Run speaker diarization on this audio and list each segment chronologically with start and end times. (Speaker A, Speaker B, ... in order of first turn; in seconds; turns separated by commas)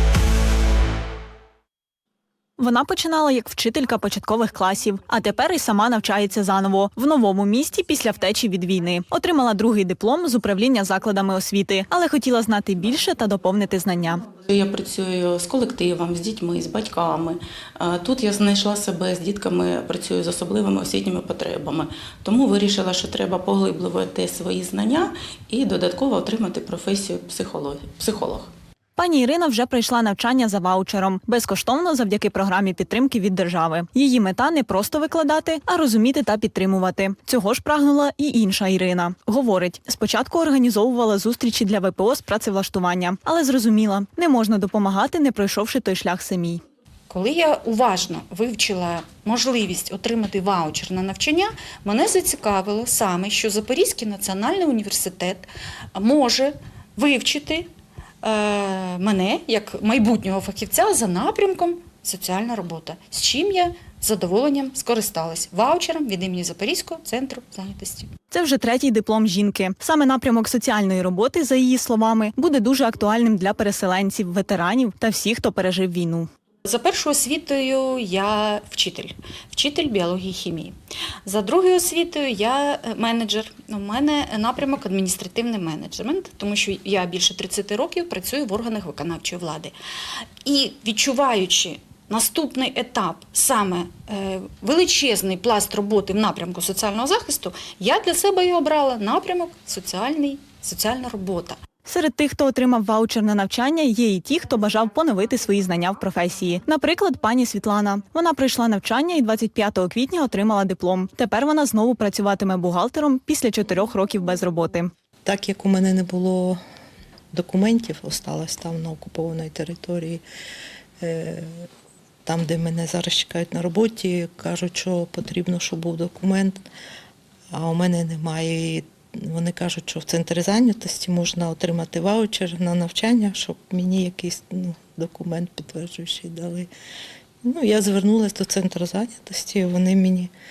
Speaker A: 2.6-14.2, Speaker B: 14.4-28.5, Speaker A: 29.0-46.6, Speaker C: 47.1-57.7, Speaker C: 58.2-68.1, Speaker A: 68.3-76.3, Speaker C: 76.6-89.7, Speaker C: 90.4-101.6, Speaker A: 101.8-114.9, Speaker D: 115.2-116.6, Speaker D: 117.3-120.2, Speaker D: 121.0-121.7, Speaker D: 122.2-126.6, Speaker D: 127.5-136.7, Speaker D: 137.4-140.3